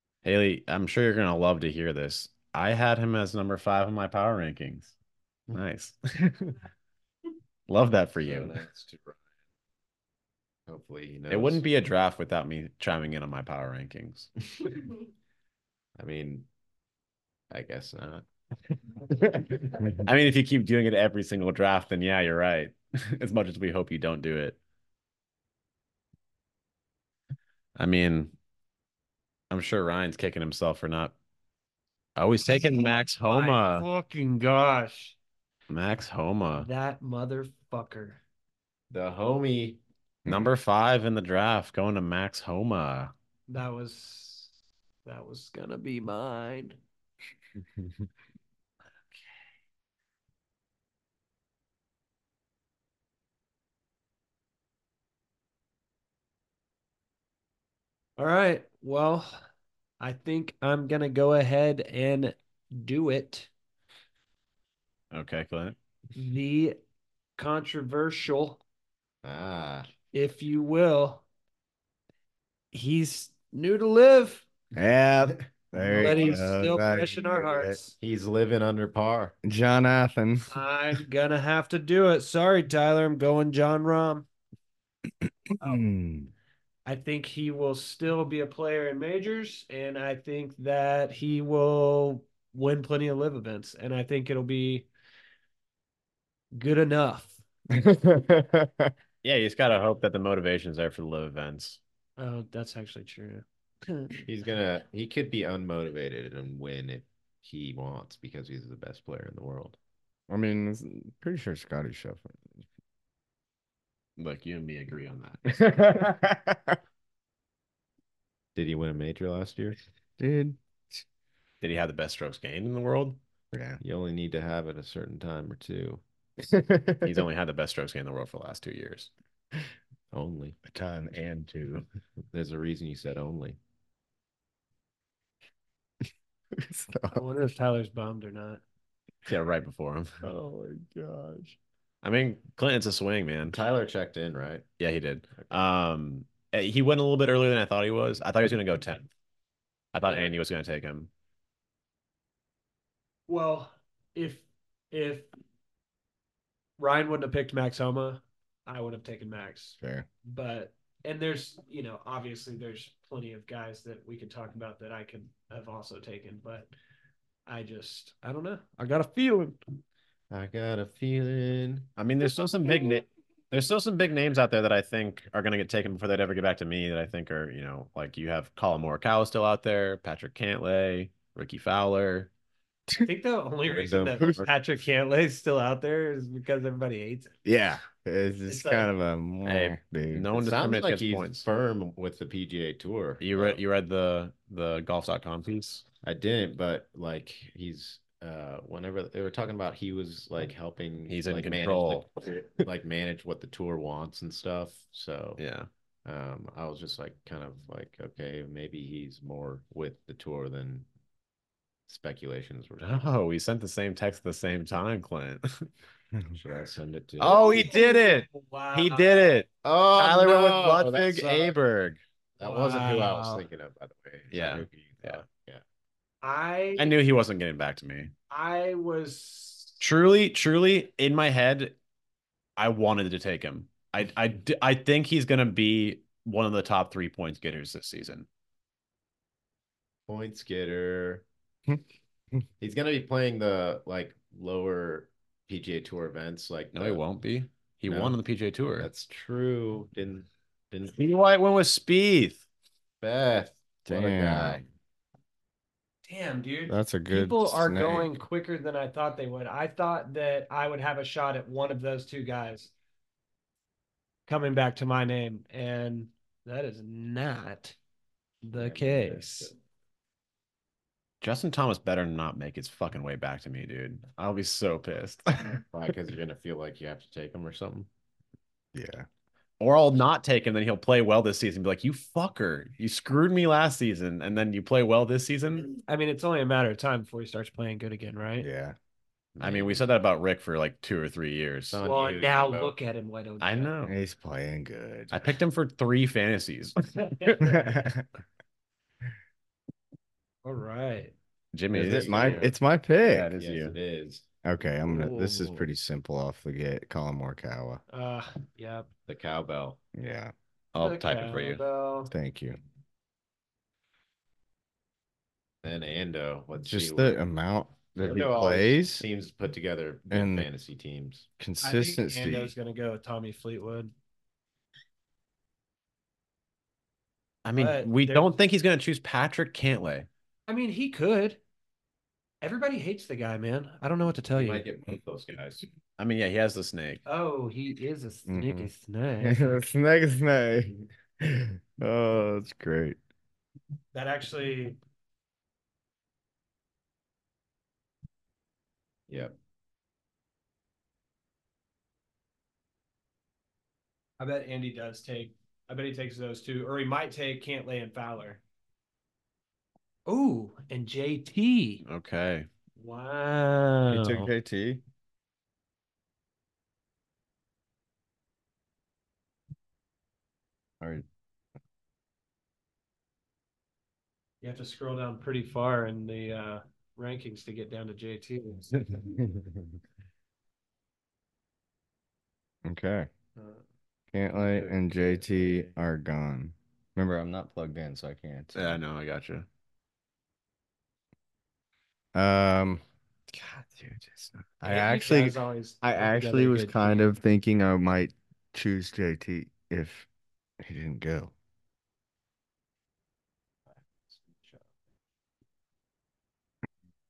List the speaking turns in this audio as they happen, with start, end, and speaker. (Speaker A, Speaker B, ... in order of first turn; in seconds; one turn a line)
Speaker A: 0.2-4.9
Speaker A: 5.5-6.5
Speaker A: 7.7-8.6
Speaker B: 8.2-9.2
Speaker B: 10.7-11.7
Speaker A: 11.3-14.3
Speaker B: 16.0-16.5
Speaker B: 17.5-18.2
Speaker A: 19.9-24.6
Speaker A: 27.8-28.3
Speaker A: 29.5-31.1
Speaker A: 32.1-33.9
Speaker C: 33.1-35.1
Speaker A: 35.7-36.7
Speaker C: 36.6-38.2
Speaker B: 38.9-39.8
Speaker A: 40.2-43.1
Speaker C: 43.5-44.5
Speaker C: 45.0-46.8
Speaker C: 58.2-59.4
Speaker C: 60.0-63.5
Speaker A: 65.1-65.8
Speaker C: 66.1-66.8
Speaker C: 67.4-68.6
Speaker B: 69.2-69.9
Speaker C: 70.1-71.2
Speaker C: 72.7-74.4
Speaker D: 74.8-77.8
Speaker C: 75.9-77.9
Speaker B: 78.0-79.3
Speaker D: 79.4-80.5
Speaker C: 80.5-84.3
Speaker D: 85.2-86.3
Speaker C: 86.8-94.9
Speaker C: 96.5-97.4
Speaker D: 97.7-98.9
Speaker A: 99.2-101.8
Speaker C: 102.2-104.2
Speaker B: 104.2-109.8
Speaker D: 110.3-112.6
Speaker A: 114.2-115.4
Speaker D: 115.5-116.8
Speaker B: 118.5-119.8
Speaker D: 120.2-121.0
Speaker A: 121.6-123.2
Speaker D: 123.5-123.8
Speaker B: 123.8-126.0
Speaker D: 126.4-127.2
Speaker A: 127.0-129.1
Speaker B: 130.1-130.6
Speaker D: 130.6-131.8
Speaker B: 132.3-133.6
Speaker D: 136.5-137.2
Speaker C: 137.1-138.6
Speaker A: 139.2-140.2
Speaker D: 140.2-141.6
Speaker A: 142.0-143.6
Speaker B: 143.5-144.6
Speaker A: 144.8-149.1
Speaker A: 149.9-151.1
Speaker C: 153.3-155.3
Speaker C: 156.8-166.7
Speaker D: 159.8-160.1
Speaker C: 167.4-169.6
Speaker B: 170.3-171.9
Speaker A: 172.0-182.3
Speaker C: 183.0-187.3
Speaker B: 183.7-184.5
Speaker D: 187.4-190.3
Speaker C: 188.5-188.9
Speaker A: 189.4-191.4
Speaker B: 190.3-193.6
Speaker A: 193.2-195.8
Speaker B: 196.0-205.4
Speaker A: 201.1-202.1
Speaker A: 205.4-205.7
Speaker B: 206.0-210.9
Speaker B: 211.9-213.0
Speaker A: 212.8-215.7
Speaker B: 216.3-217.7
Speaker A: 217.2-222.0
Speaker C: 217.2-219.4
Speaker B: 219.6-221.6
Speaker B: 222.4-225.6
Speaker C: 222.4-223.4
Speaker A: 224.3-225.2
Speaker C: 226.2-226.9
Speaker A: 226.8-228.1
Speaker C: 228.3-229.8
Speaker A: 229.8-231.8
Speaker A: 232.6-238.2
Speaker B: 240.1-241.2
Speaker B: 242.6-247.0
Speaker A: 246.7-248.9
Speaker B: 247.8-248.2
Speaker B: 248.8-250.9
Speaker A: 250.9-252.4
Speaker B: 253.0-254.6
Speaker D: 253.9-254.6
Speaker C: 256.1-262.7
Speaker D: 256.7-258.1
Speaker C: 264.3-267.8
Speaker C: 268.4-269.5
Speaker B: 268.6-269.5
Speaker A: 271.2-275.6
Speaker B: 275.7-277.9
Speaker D: 278.7-279.1
Speaker A: 279.6-285.8
Speaker C: 285.9-288.5
Speaker D: 288.4-288.8
Speaker A: 289.4-291.8
Speaker B: 289.4-289.7
Speaker B: 291.7-292.7
Speaker C: 291.8-293.7
Speaker A: 293.4-293.9
Speaker D: 293.8-295.3
Speaker A: 295.1-296.7
Speaker C: 297.0-297.8
Speaker D: 297.4-298.0
Speaker C: 300.4-301.1
Speaker A: 301.5-303.7
Speaker D: 301.7-303.3
Speaker B: 301.8-302.4
Speaker B: 303.3-304.2
Speaker D: 304.4-307.8
Speaker C: 304.9-305.7
Speaker C: 307.9-308.9
Speaker B: 309.1-309.8
Speaker D: 309.9-310.3
Speaker A: 310.7-311.6
Speaker C: 310.8-312.1
Speaker D: 312.1-312.6
Speaker B: 315.6-317.2
Speaker D: 316.7-319.0
Speaker B: 318.0-321.2
Speaker D: 320.1-320.5
Speaker D: 321.4-322.5
Speaker C: 321.6-323.9
Speaker A: 327.4-330.1
Speaker C: 327.5-328.3
Speaker C: 330.5-331.4
Speaker C: 332.4-334.6
Speaker B: 334.3-335.6
Speaker A: 336.0-337.0
Speaker C: 337.1-339.6
Speaker D: 338.3-343.0
Speaker C: 343.9-344.8
Speaker B: 349.1-349.3
Speaker C: 354.2-358.4
Speaker C: 360.1-361.8
Speaker A: 361.8-362.5
Speaker C: 362.8-364.3
Speaker D: 363.9-364.8
Speaker C: 374.4-378.9
Speaker D: 379.0-379.5
Speaker D: 382.6-383.1
Speaker D: 384.1-388.8
Speaker B: 384.3-385.7
Speaker A: 388.5-389.5
Speaker D: 392.1-400.1
Speaker C: 394.6-397.0
Speaker D: 400.6-401.3
Speaker B: 403.8-404.7